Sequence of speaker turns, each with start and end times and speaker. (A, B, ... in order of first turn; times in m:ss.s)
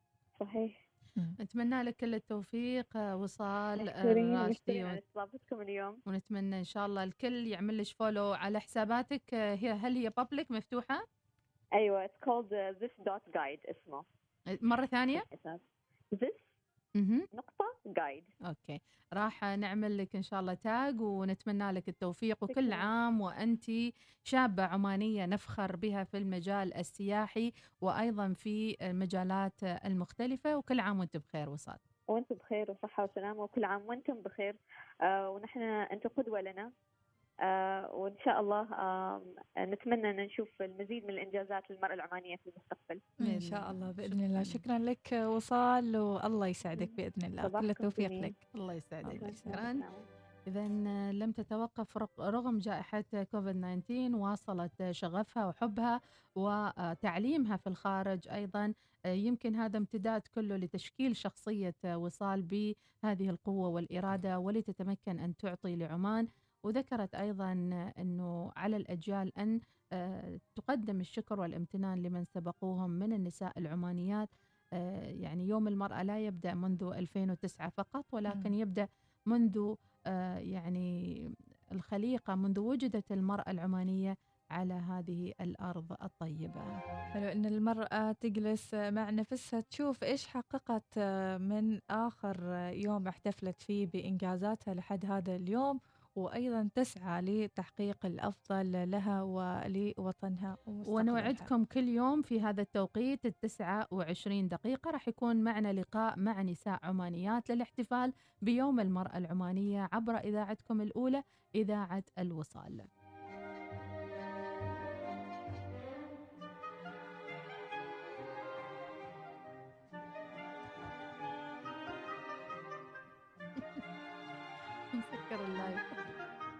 0:00.4-0:00.8 A
0:01.4-0:05.0 B
0:03.8-0:06.0 A
0:06.1-0:11.0 B
0:11.8-0:14.1 A
0:14.5-0:15.3 B
0:15.1-0:16.5 A
0:17.0-0:17.3 B
0:17.3-0:18.3 A
0:18.5-0:31.8 B
0:22.5-0:22.9 A
0:32.1-0:36.7 A
0:37.5-0:43.0 A
0:43.2-0:44.6 B
0:43.2-0:48.4 C
0:46.8-0:48.3 A
0:48.5-0:49.9 B
0:49.0-0:49.6 C
0:49.1-0:50.1 A
0:50.5-1:26.7 B
1:18.3-1:18.5 C
1:27.1-1:30.9 C
1:31.4-1:41.5 C
1:40.9-1:52.9 B
2:03.6-2:03.8 B
2:04.9-2:06.0 B